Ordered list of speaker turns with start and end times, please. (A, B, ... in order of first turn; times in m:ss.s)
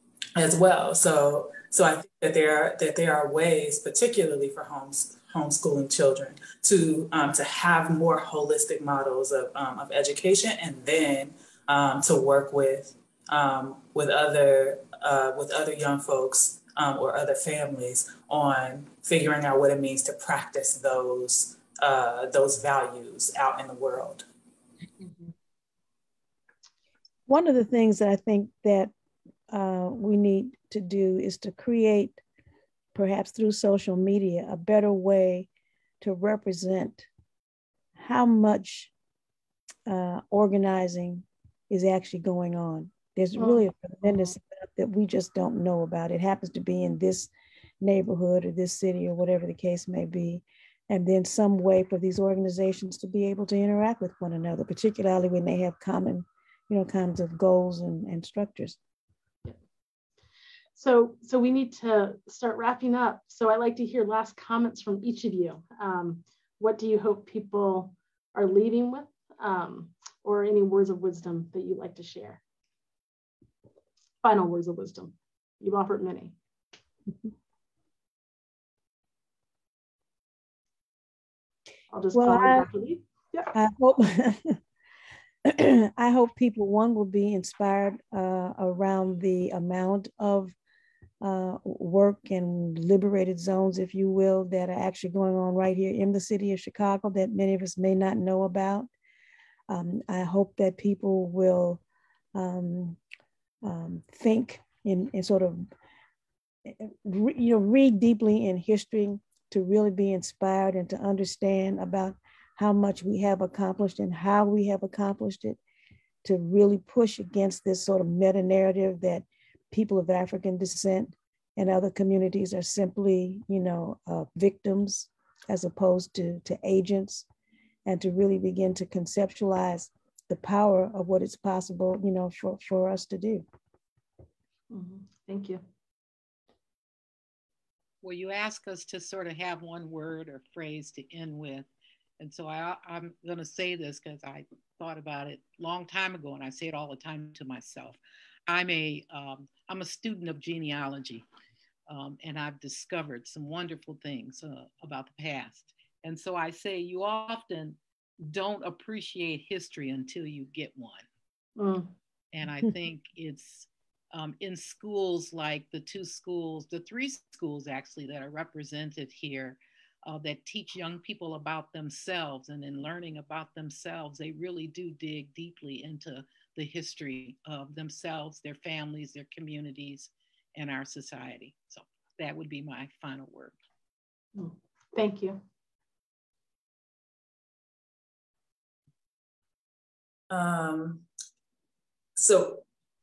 0:00.4-0:24.2 A
0:25.0-0:25.3 B
0:27.3-0:28.9 C
0:29.5-0:32.2 C
0:32.9-0:35.5 C
0:36.0-0:37.1 C
0:38.0-0:38.9 C
0:39.8-0:58.8 C
0:43.4-0:44.3 B
1:00.8-1:12.4 B
1:14.2-1:16.3 B
1:21.9-1:23.5 B
1:22.1-1:22.7 C
1:23.5-1:24.6 C
1:25.4-1:30.5 C
1:31.2-1:38.9 C
1:39.7-1:41.8 C
1:42.3-1:43.0 C
1:43.6-1:45.6 C
1:46.6-1:55.6 C
1:56.2-2:07.3 C
2:07.8-2:13.4 C
2:14.7-2:15.6 B
2:18.0-2:21.7 D
2:22.2-2:31.2 D
2:31.9-2:41.1 D
2:41.6-2:41.9 B
2:42.3-3:03.5 D
3:04.3-3:05.4 B
3:10.3-3:11.1 A
3:12.2-3:12.6 A